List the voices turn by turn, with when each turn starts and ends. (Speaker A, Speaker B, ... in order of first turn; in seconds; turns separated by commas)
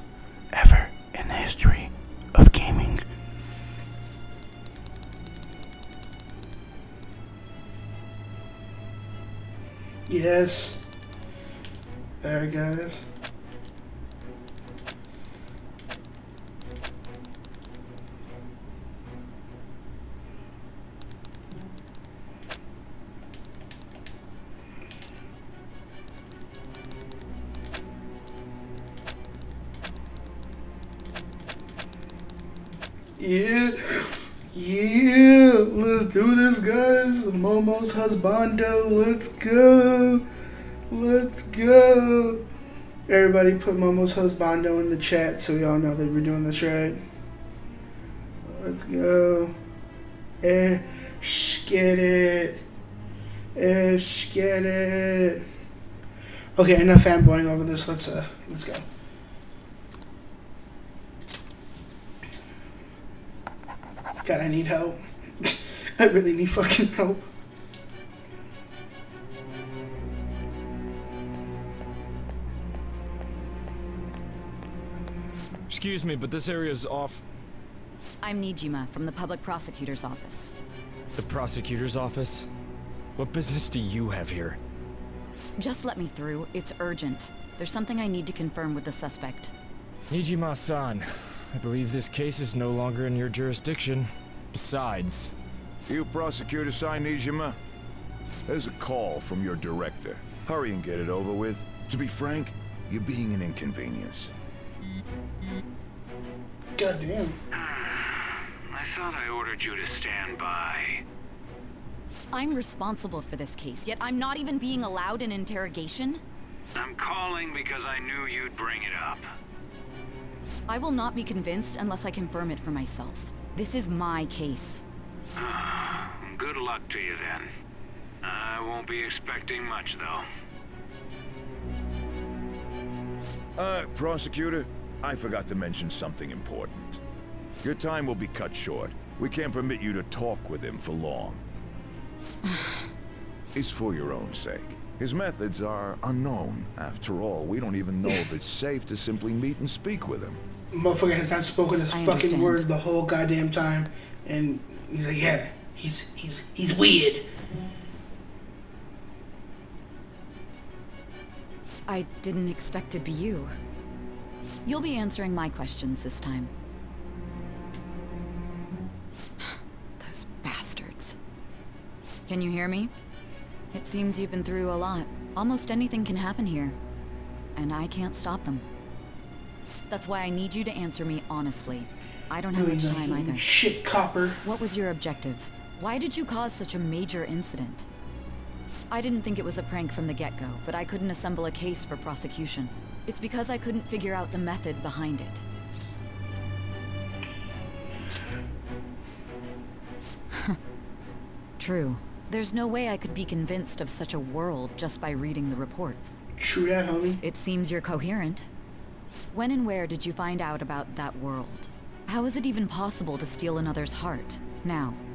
Speaker A: 0.5-3.0, Speaker A: 10.1-10.8, Speaker A: 12.2-13.1, Speaker A: 33.2-40.2, Speaker A: 40.9-42.4, Speaker A: 43.1-47.0, Speaker A: 48.5-49.5, Speaker A: 50.4-52.6, Speaker A: 53.5-55.4, Speaker A: 56.6-58.8, Speaker A: 64.2-67.3, Speaker B: 75.7-77.2, Speaker C: 78.2-80.5, Speaker B: 81.2-82.5, Speaker B: 83.2-84.6, Speaker C: 85.6-89.5, Speaker B: 90.1-95.3, Speaker D: 95.9-97.5, Speaker D: 98.5-104.3, Speaker A: 106.8-107.4, Speaker E: 107.5-111.0, Speaker C: 112.3-116.2, Speaker E: 116.8-119.2, Speaker C: 120.7-124.8, Speaker E: 125.4-127.5, Speaker E: 128.2-130.2, Speaker D: 133.6-137.0, Speaker D: 137.6-141.4, Speaker D: 143.6-150.4, Speaker A: 150.7-157.3, Speaker C: 151.9-152.7, Speaker C: 161.9-163.6, Speaker C: 164.7-166.5, Speaker C: 169.5-171.2, Speaker C: 172.3-172.9, Speaker C: 173.7-176.8, Speaker C: 177.6-178.7, Speaker C: 179.9-183.5, Speaker A: 182.5-184.4, Speaker C: 184.4-187.9, Speaker C: 188.9-195.4, Speaker C: 201.6-206.1, Speaker A: 206.4-207.2, Speaker C: 207.2-208.5, Speaker C: 209.3-215.0